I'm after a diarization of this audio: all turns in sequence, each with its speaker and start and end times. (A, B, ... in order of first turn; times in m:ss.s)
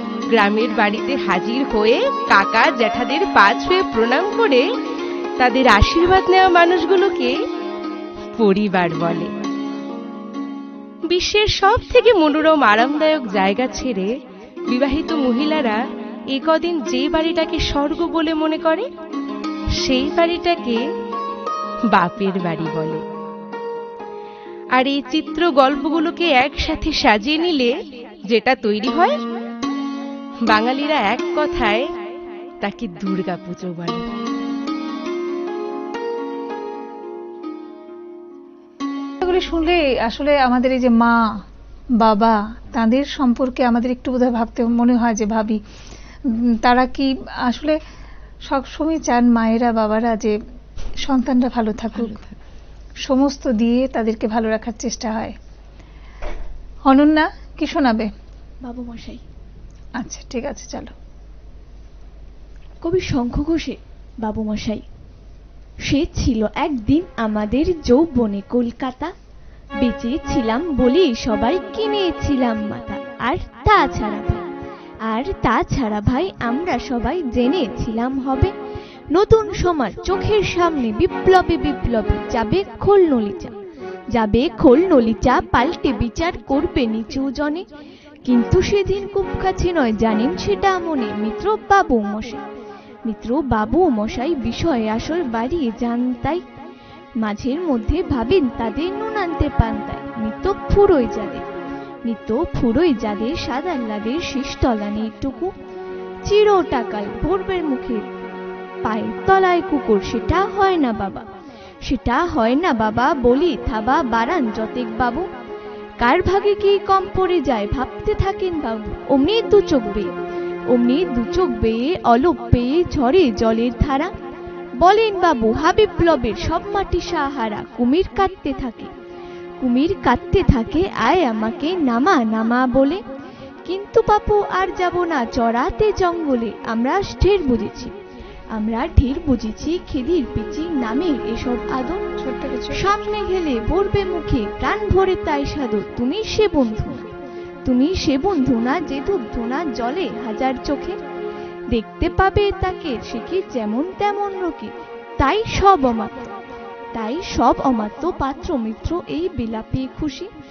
0:00.3-0:04.7 A
0:05.4-0:07.4 A
0:08.3-0:09.3 A
0:11.1-0:14.1 A
0:14.7-0:18.9 A
0:19.8-0:20.8 A
0:21.9-0:23.0 A
0:24.7-0:27.7 A
0:28.3-0:29.2 A
0:30.5-0:31.9 A
0:32.6-0:34.0 A
0:39.2-0:41.4 B
0:42.0-0:45.6 B
0:46.2-0:47.8 B
0:48.4-0:50.4 B
0:51.0-0:52.2 B
0:51.9-0:52.4 A
0:53.0-0:55.4 B
0:56.9-0:58.1 B
0:58.6-0:59.2 C
1:00.0-1:00.9 B
1:02.8-1:04.8 C
1:05.8-1:09.1 C
1:09.8-1:14.5 C
1:15.1-1:18.5 C
1:19.1-1:23.6 C
1:24.1-1:27.6 C
1:28.2-1:32.4 C
1:33.1-1:36.4 C
1:37.2-1:41.5 C
1:42.1-1:45.5 C
1:46.2-1:48.0 C
1:48.8-1:51.2 C
1:51.8-1:55.3 C
1:56.0-2:00.1 C
2:00.7-2:04.1 C
2:04.8-2:08.9 C
2:09.6-2:13.0 C
2:13.6-2:17.9 C
2:18.5-2:22.0 C
2:22.2-2:23.0 B
2:22.7-2:27.1 C
2:27.6-2:31.0 C
2:31.7-2:36.1 C
2:36.9-2:40.3 C